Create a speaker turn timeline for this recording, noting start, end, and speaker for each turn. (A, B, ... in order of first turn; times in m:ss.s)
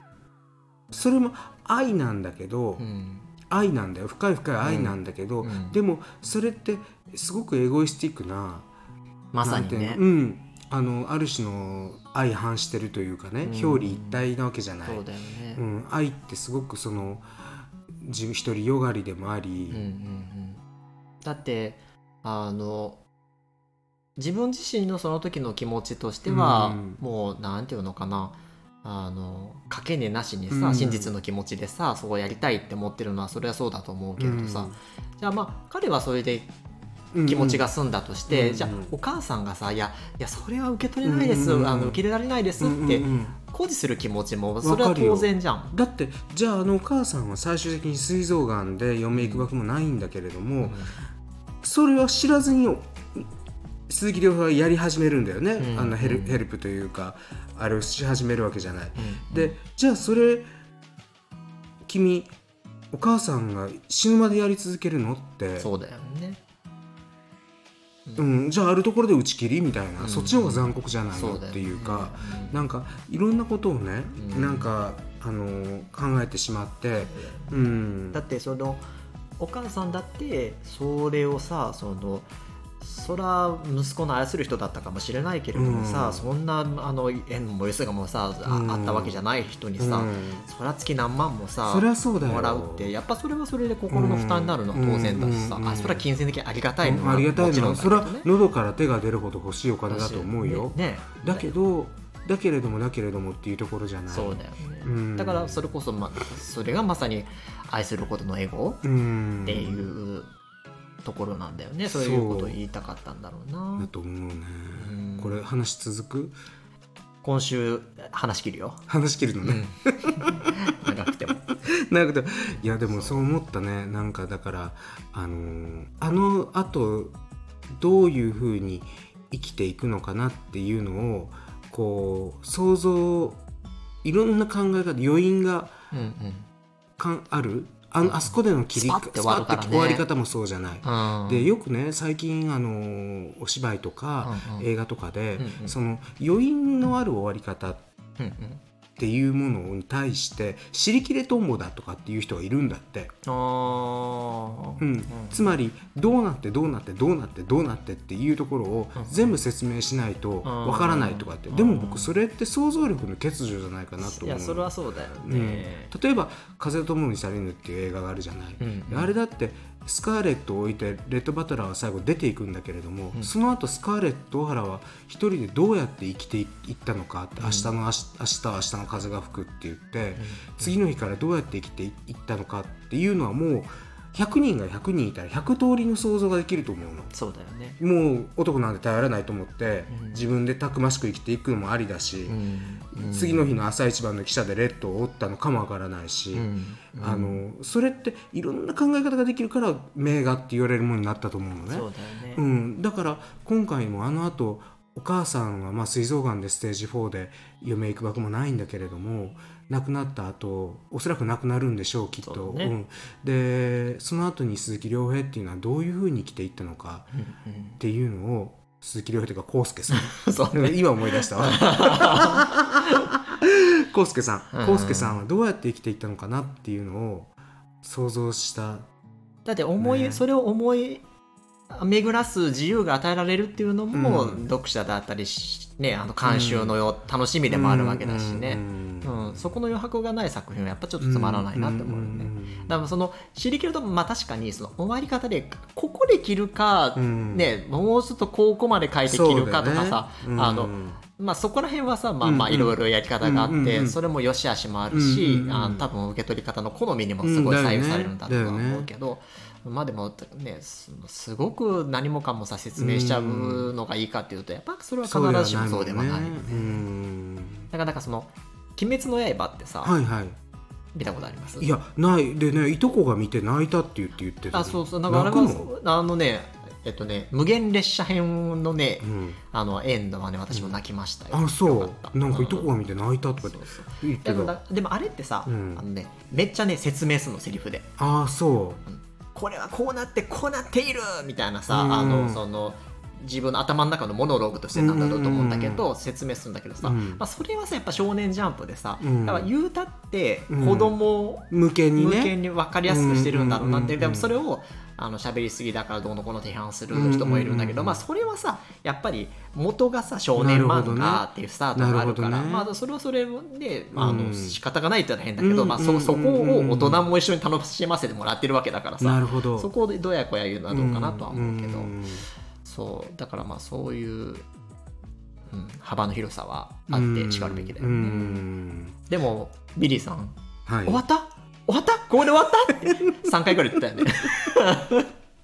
0:00.9-0:02.8 A
0:02.8-0:03.3 B
0:03.5-0:08.7 A
0:04.6-0:05.8 B
0:09.3-0:10.0 B
0:09.4-0:15.0 A
0:13.4-0:14.2 B
0:14.8-0:15.6 B
0:15.5-0:17.3 A
0:18.0-0:19.8 A
0:19.7-0:20.6 B
0:21.2-0:23.0 B
0:24.2-0:36.5 B
0:26.2-0:27.0 A
0:30.5-0:31.1 A
0:34.2-0:34.8 A
0:37.1-0:37.6 A
0:37.2-0:45.7 B
0:38.3-0:38.9 A
0:41.0-0:42.0 A
0:42.6-0:43.4 A
0:44.6-0:50.8 A
0:49.1-0:49.5 B
0:50.6-0:51.0 B
0:51.6-0:53.3 A
0:53.9-1:00.5 A
0:55.6-0:56.4 B
0:59.0-0:59.6 B
1:01.8-1:02.3 A
1:02.9-1:05.7 A
1:05.6-1:06.4 B
1:08.2-1:18.2 A
1:10.0-1:12.6 B
1:14.2-1:14.7 B
1:17.1-1:18.8 B
1:19.4-1:22.3 B
1:22.8-1:38.3 B
1:25.5-1:26.3 A
1:28.4-1:29.2 A
1:29.8-1:30.4 A
1:31.6-1:32.9 A
1:33.9-1:36.0 A
1:36.8-1:45.6 A
1:39.9-1:41.5 B
1:44.1-1:48.8 B
1:48.8-1:49.8 A
1:49.4-1:50.3 B
1:51.0-1:53.9 B
1:51.9-1:52.6 A
1:53.8-1:56.3 A
1:54.7-1:55.4 B
1:57.2-1:58.8 B
1:58.9-2:00.5 A
1:59.4-2:01.5 B
2:01.7-2:07.2 A
2:02.5-2:03.2 B
2:07.7-2:13.4 A
2:14.0-2:15.7 A
2:15.9-2:16.5 B
2:17.0-2:27.8 A
2:18.0-2:20.0 B
2:20.8-2:21.5 B
2:24.2-2:24.7 B
2:25.4-2:25.8 B
2:28.2-2:28.6 B
2:29.0-2:33.1 A
2:33.2-2:35.5 B
2:34.8-3:07.1 A
2:39.0-2:39.4 B
2:40.4-2:42.2 B
2:44.0-2:45.9 B
2:48.6-2:49.1 B
2:57.4-2:57.7 B
3:00.2-3:00.8 B
3:07.1-3:07.8 B
3:07.8-3:12.4 A
3:09.9-3:10.2 B
3:12.3-3:13.5 B
3:12.9-3:37.1 A
3:16.3-3:17.4 B
3:21.7-3:22.4 B
3:32.2-3:32.7 B
3:37.2-3:37.8 B
3:37.8-3:48.9 A
3:39.9-3:43.1 B
3:44.5-3:45.2 B
3:49.4-3:51.0 B
3:49.8-3:50.2 A
3:51.7-4:26.8 B
3:53.9-3:54.4 A
3:56.2-3:56.8 A
3:57.5-3:59.4 A
4:01.0-4:02.8 A
4:07.0-4:07.5 A
4:09.0-4:11.0 A
4:12.2-4:14.0 A
4:14.9-4:15.9 A
4:17.2-4:18.9 A
4:22.8-4:23.7 A
4:25.0-4:27.7 A
4:27.7-4:29.9 B
4:29.8-4:30.4 A
4:30.9-4:31.7 B
4:31.6-4:35.7 A
4:34.5-4:42.7 B
4:39.0-4:39.4 A
4:40.5-4:40.8 A
4:41.3-4:44.5 A
4:43.4-4:47.9 B
4:45.4-4:45.8 A
4:48.0-4:48.8 A
4:48.9-5:22.0 B
4:51.7-4:52.4 A
4:54.7-4:55.8 A
4:56.8-4:57.2 A
4:59.0-4:59.5 A
5:00.5-5:00.9 A
5:01.5-5:02.3 A
5:02.9-5:04.4 A
5:06.9-5:08.0 A
5:10.4-5:12.7 A
5:13.9-5:14.6 A
5:15.4-5:17.0 A
5:19.0-5:19.7 A
5:20.7-5:22.2 A
5:22.6-5:24.4 B
5:25.5-5:28.4 B
5:26.9-5:29.0 A
5:29.1-5:35.1 B
5:30.6-5:31.0 A
5:33.0-5:33.5 A
5:34.0-5:34.3 A